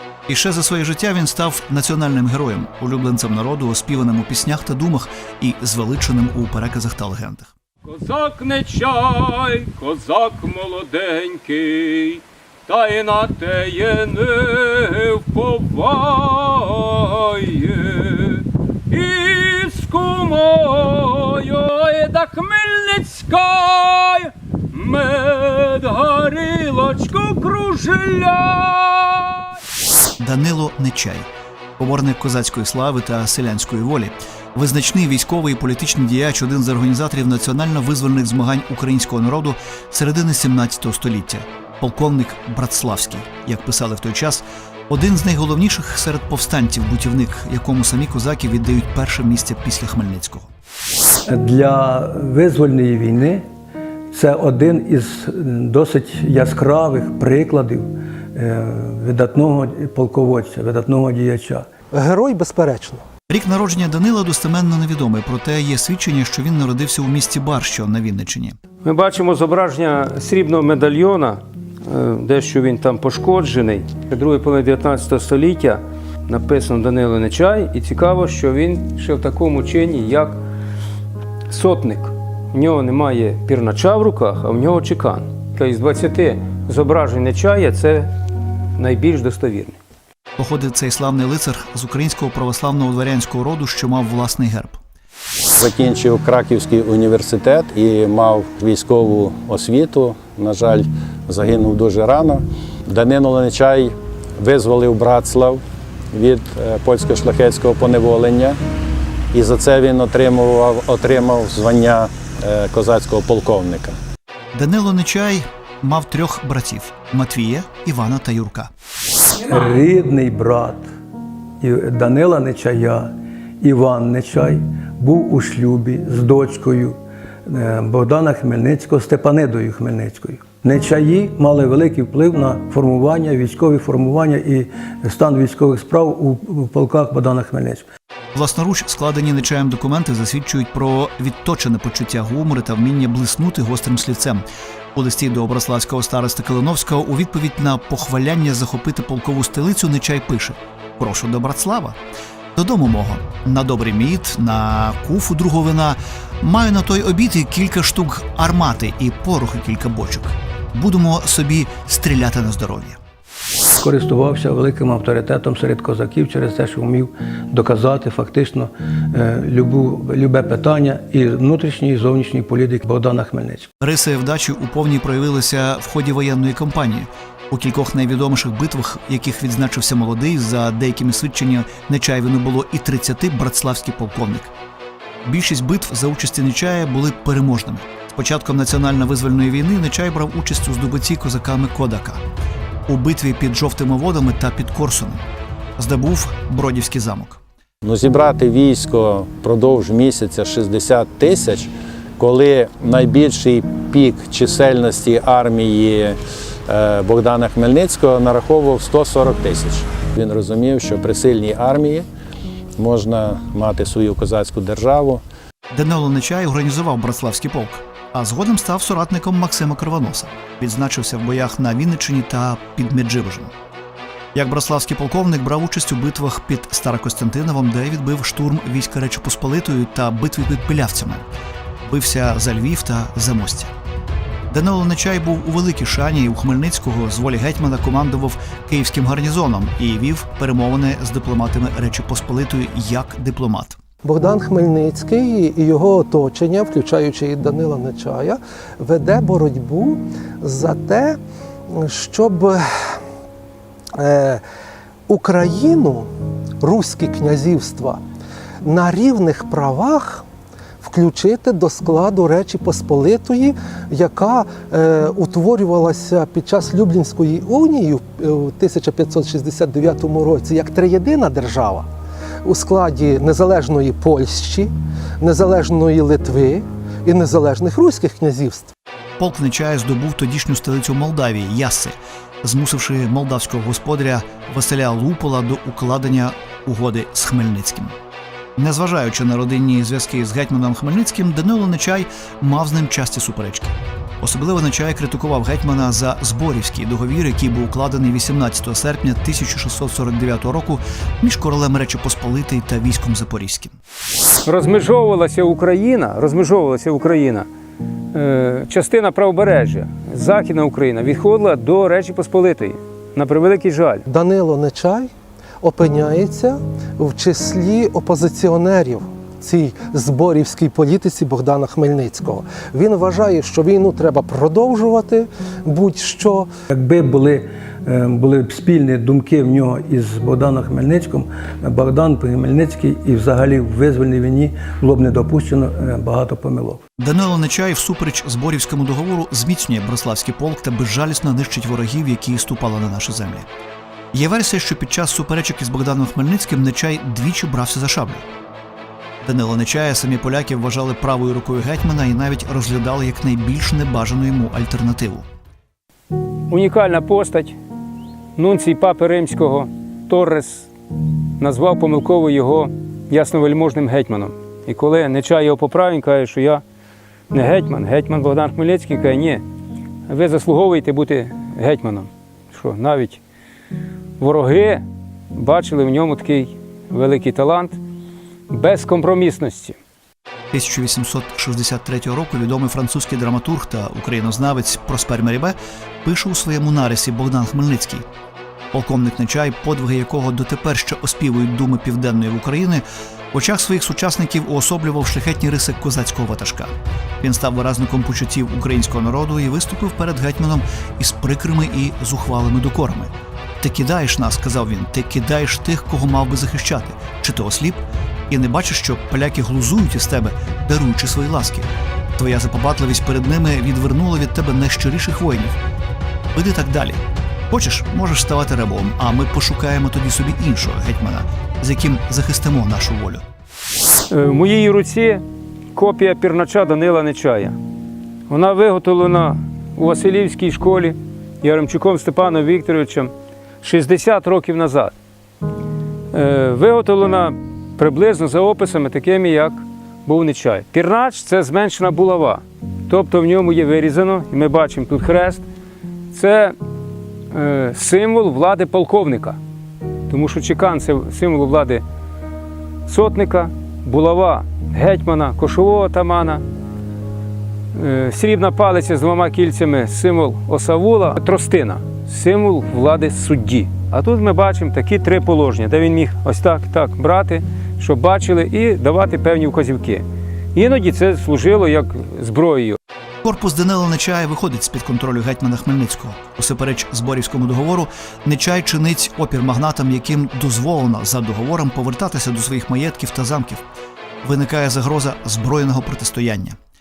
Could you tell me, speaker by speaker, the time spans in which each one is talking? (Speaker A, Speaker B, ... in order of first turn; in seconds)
Speaker A: 0.3-7.5, 30.2-50.5, 63.3-68.6, 90.4-94.8, 114.5-118.7, 138.3-152.0, 152.6-163.0, 173.8-184.5, 185.2-192.2, 192.9-195.2, 195.8-197.4, 215.7-223.5, 224.3-231.3, 231.8-233.7, 234.5-243.8, 279.2-287.9, 288.6-303.8, 337.0-343.4, 344.1-348.2, 349.2-355.3, 380.5-388.0, 388.7-415.6, 416.3-423.2, 473.2-483.6, 484.2-486.6
Speaker B: 7.8-29.4, 68.8-80.4, 81.5-88.1, 88.8-89.8, 304.4-307.5, 308.1-314.0, 356.5-357.6, 358.4-360.7, 361.4-366.6, 367.3-369.4, 370.1-373.2, 374.2-377.8, 378.5-379.8, 424.1-425.2, 425.7-427.6, 428.3-433.1, 433.6-434.9, 436.1-445.4, 446.1-446.5, 447.3-449.4, 450.1-451.8, 452.9-456.4, 457.7-470.0, 470.5-472.8
Speaker C: 51.2-53.4, 54.1-61.7, 119.5-120.8, 121.6-137.8, 163.8-173.7, 326.7-336.8
Speaker D: 61.9-63.0, 244.0-251.2, 251.7-252.6, 254.0-254.4, 255.1-256.1, 256.6-258.0, 258.6-260.2, 260.8-271.9, 272.4-278.7, 314.1-315.1, 315.6-326.5
Speaker E: 95.5-108.6, 109.3-114.0, 197.8-212.1, 212.8-215.2